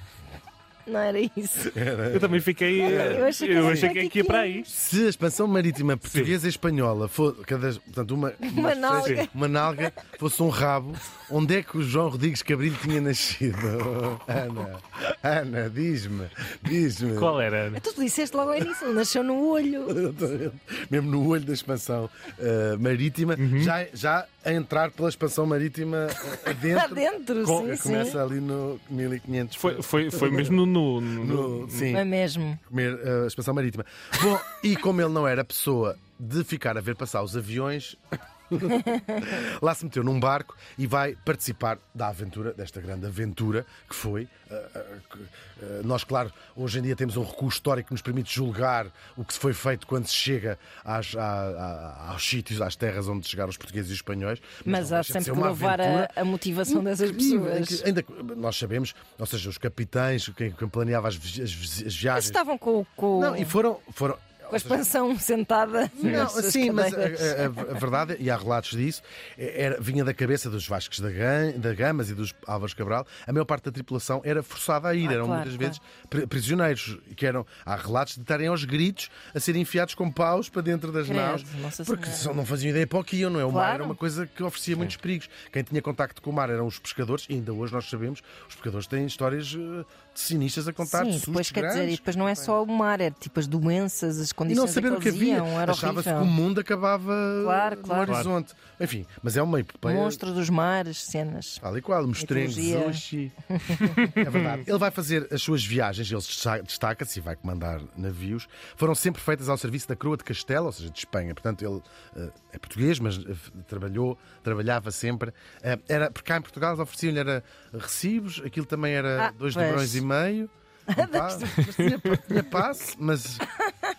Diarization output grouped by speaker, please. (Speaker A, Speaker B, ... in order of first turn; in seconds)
Speaker A: 0.8-1.7, 2.7-4.7, 8.4-9.9, 17.7-20.0, 26.4-28.2, 31.9-32.6, 54.6-57.8, 62.1-63.5, 64.5-67.8, 75.0-75.8, 81.0-82.3, 83.5-84.0, 90.8-96.3, 97.4-98.2, 99.8-101.6, 102.2-104.2, 119.2-120.0, 120.9-121.9
Speaker B: 1.6-3.9, 4.7-17.4, 19.9-30.6, 31.1-32.0, 32.6-56.1, 56.6-62.4, 63.1-64.9, 66.0-92.5, 94.5-100.2, 101.6-103.3, 103.9-123.5
Speaker C: 2.1-4.7, 6.0-6.3, 8.9-9.2, 17.1-17.8, 23.4-23.7, 27.4-28.2, 29.6-31.9, 66.0-66.3, 98.0-98.3, 104.0-104.5, 121.6-122.3